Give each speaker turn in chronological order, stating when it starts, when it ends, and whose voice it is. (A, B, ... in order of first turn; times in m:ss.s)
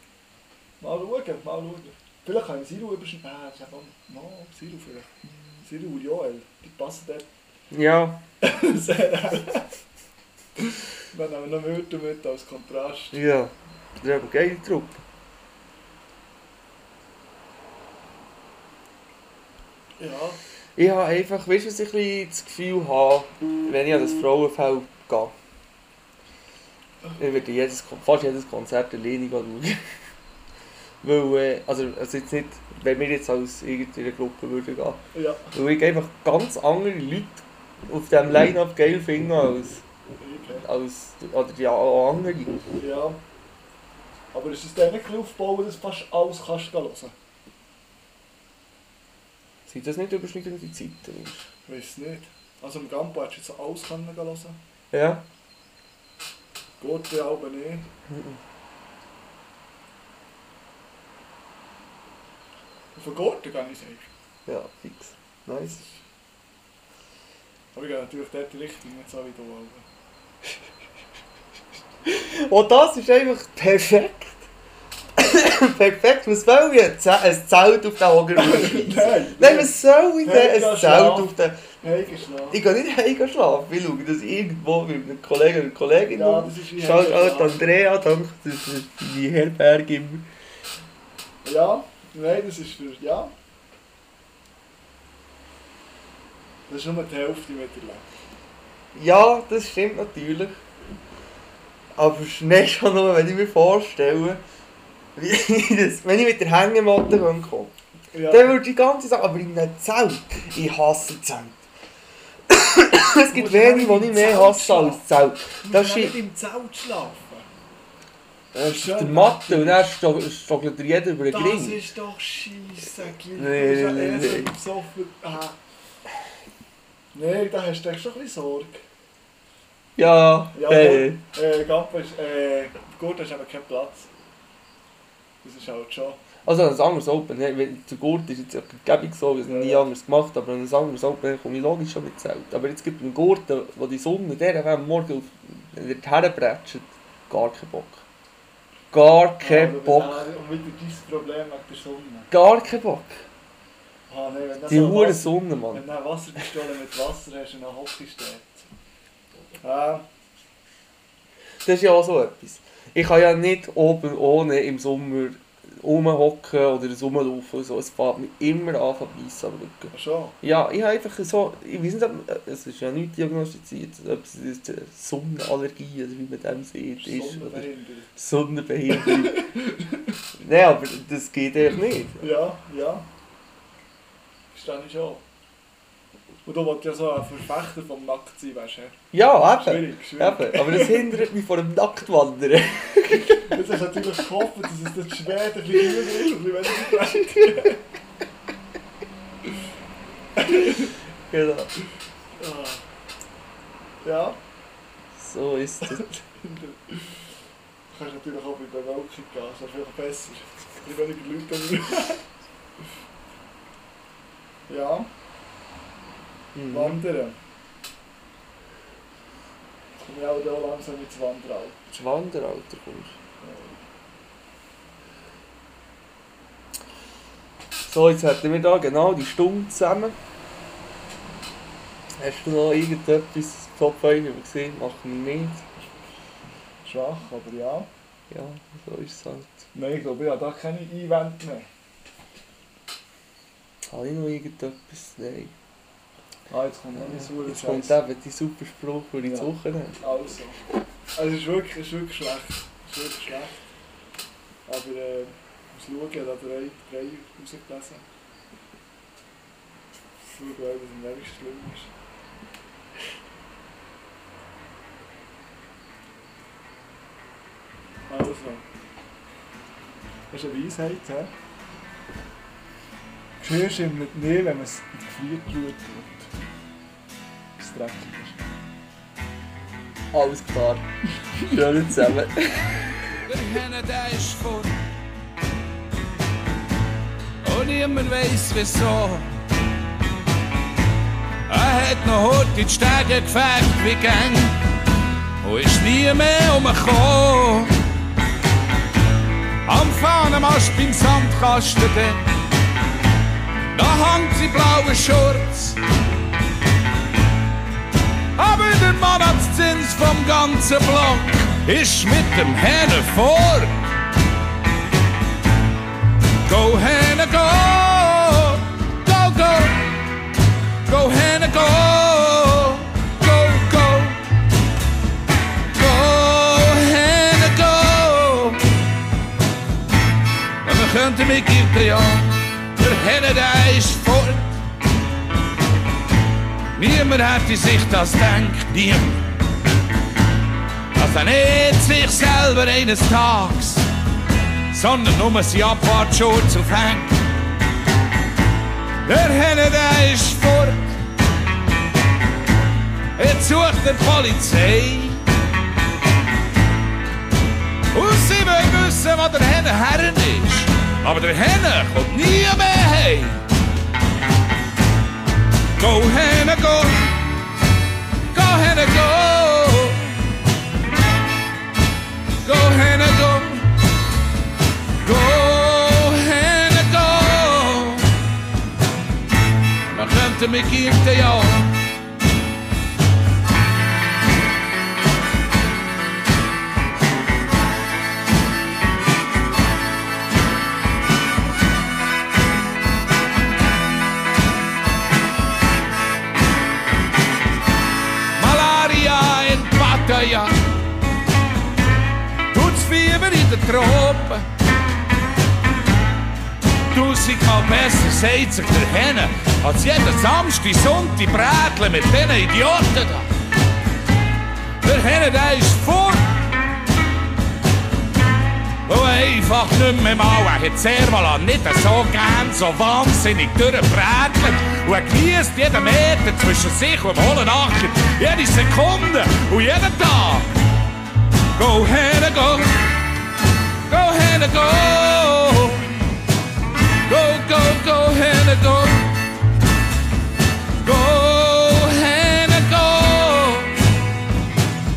0:00.8-0:07.3 A
0:07.7-0:08.2 B
0:08.4-0:09.7 A
0:10.6-0:13.2 A
0:13.1-0:15.0 B
0:20.0-0:20.4 A
0:20.8-0:25.4 B
0:27.2-0:29.8 B
0:31.0-0:35.0 B
0:35.1-0:35.5 A
0:35.5-0:39.8 B
0:40.2-0:40.7 A
0:40.6-0:42.6 B
0:42.8-0:43.2 A
0:44.3-0:47.2 A
0:49.7-0:51.5 B
0:51.7-0:54.6 A
0:54.9-0:55.2 B
0:56.8-0:57.9 A
0:58.1-0:58.4 B
1:02.9-1:04.1 A
1:04.5-1:05.8 B
1:07.7-1:09.9 A
1:12.1-1:14.5 B
1:15.2-1:21.6 B
1:18.4-1:22.6 A
1:22.5-1:30.3 B
1:26.1-1:27.6 A
1:31.4-1:33.3 A
1:36.7-1:38.1 A
1:38.9-1:40.6 B
1:42.0-1:44.4 B
1:45.2-1:47.8 B
1:48.1-1:48.6 A
1:48.3-1:51.6 B
1:52.5-1:56.2 B
1:53.3-1:55.1 A
1:55.6-1:57.5 A
1:58.5-2:01.8 B
1:58.6-1:59.9 A
2:01.3-2:05.6 A
2:03.4-2:04.5 B
2:07.1-2:08.8 A
2:10.0-2:11.2 B
2:10.5-2:14.1 A
2:15.4-2:16.2 A
2:16.4-2:28.0 B
2:19.4-2:19.9 A
2:28.9-2:30.3 B
2:29.4-2:32.3 A
2:32.3-2:33.2 B
2:34.1-2:38.7 A
2:34.7-2:35.8 B
2:39.6-2:40.0 A
2:41.6-2:59.5 B
2:49.9-2:50.4 A
2:57.0-2:58.1 A
2:58.9-3:00.1 A
3:00.4-3:02.3 B
3:02.2-3:03.1 A
3:04.5-3:05.2 A
3:06.4-3:11.2 A
3:09.1-3:13.5 B
3:13.4-3:17.8 A
3:20.4-3:20.9 A
3:21.3-3:21.7 B
3:22.4-3:22.8 A
3:24.0-3:24.4 A
3:25.2-3:26.2 B
3:26.4-3:27.2 A
3:27.9-3:32.2 A
3:34.7-3:35.1 A
3:36.6-3:37.0 B
3:36.7-3:37.4 A
3:40.0-3:41.8 A
3:41.9-3:43.2 B
3:43.4-3:43.8 A
3:47.9-3:50.2 B
3:52.2-3:55.7 B
3:56.8-3:57.9 A
3:58.3-3:59.7 B
3:59.7-4:01.7 A
4:03.9-4:05.5 B
4:06.5-4:08.0 A
4:07.0-4:10.0 B
4:09.2-4:10.6 A
4:11.2-4:13.6 A
4:14.7-4:18.1 A
4:20.3-4:21.9 A
4:28.1-4:28.6 A
4:30.3-4:31.3 A
4:33.4-4:36.3 A
4:37.6-4:38.4 A
4:40.1-4:40.8 B
4:41.4-4:42.7 B
4:43.3-4:44.8 C
4:47.4-4:49.3 C
4:51.5-4:54.6 C
4:55.4-4:57.7 C
4:59.7-5:02.2 C
5:03.7-5:05.8 C
5:08.4-5:13.8 C
5:16.5-5:19.9 C
5:20.9-5:24.2 C
5:25.7-5:28.6 C
5:30.6-5:34.5 C
5:36.8-5:39.2 C
5:41.0-5:43.9 C
5:44.7-5:47.2 C
5:49.0-5:51.0 C
5:53.2-5:55.2 C
5:57.9-6:03.4 C
6:05.8-6:07.1 C
6:08.3-6:10.1 C
6:12.4-6:13.7 C
6:15.0-6:18.1 C
6:19.9-6:21.7 C
6:38.4-6:40.6 C
6:42.5-6:44.4 C
6:46.9-6:53.3 C
6:54.8-6:56.3 C
6:58.9-7:10.5 C
7:11.6-7:12.8 C
7:13.9-7:15.9 C
7:17.1-7:19.1 C
7:20.8-7:23.7 C